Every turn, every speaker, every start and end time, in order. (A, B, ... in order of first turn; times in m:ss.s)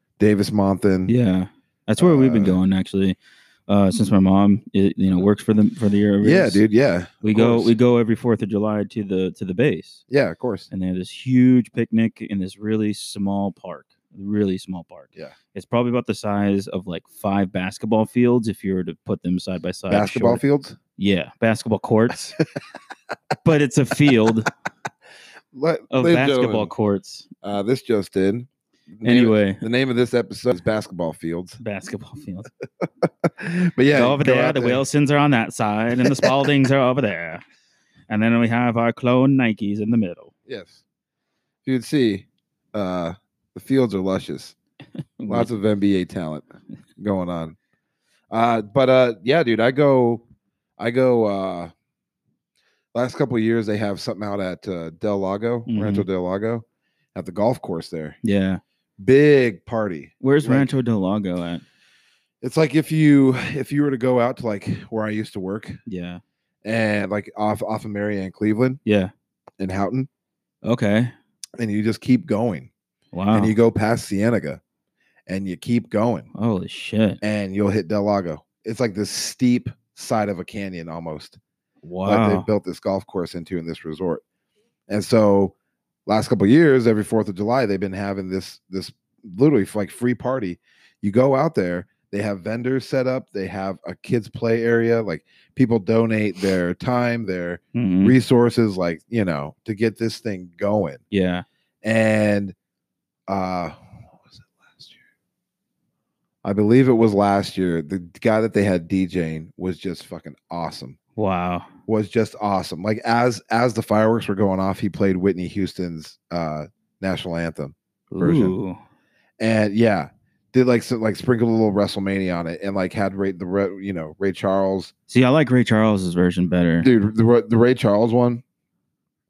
0:00.2-0:01.1 A
0:01.0-0:06.6 B
0:02.0-0:02.6 A
0:06.2-0:07.7 A
0:07.2-0:10.0 B
0:10.1-0:10.7 A
0:10.7-0:20.4 B
0:19.9-0:20.8 A
0:21.0-0:22.4 B
0:23.4-0:24.5 B
0:25.5-0:26.7 A
0:25.9-0:27.3 B
0:27.4-0:31.6 A
0:29.0-0:29.6 B
0:31.6-0:32.5 B
0:33.0-0:34.8 A
0:33.9-0:37.4 B
0:36.0-0:36.4 A
0:38.1-0:40.3 B
0:40.5-0:40.8 A
0:41.6-0:44.5 A
0:45.2-0:45.5 B
0:45.3-0:47.6 A
0:48.3-0:50.2 A
0:50.8-0:51.7 A
0:52.9-0:58.2 A
0:55.7-0:56.1 B
0:58.2-0:58.6 B
0:59.0-1:00.7 A
1:00.2-1:01.6 B
1:02.4-1:05.8 A
1:05.9-1:06.2 B
1:06.6-1:08.8 A
1:08.8-1:09.1 B
1:09.6-1:10.1 A
1:10.6-1:11.1 B
1:11.6-1:12.7 A
1:13.1-1:13.5 B
1:13.3-1:14.6 A
1:15.3-1:16.3 A
1:16.3-1:17.2 B
1:17.2-1:21.4 A
1:21.8-1:22.5 B
1:22.0-1:24.2 A
1:24.9-1:25.5 A
1:26.0-1:41.0 A
1:37.7-1:38.2 B
1:41.1-1:41.4 B
1:41.8-1:42.5 A
1:43.3-1:45.0 A
1:46.4-1:51.0 A
1:51.2-1:51.7 B
1:51.9-1:58.6 A
1:58.1-1:58.8 B
1:59.4-2:04.9 A
2:05.1-2:06.9 B
2:06.8-2:08.4 A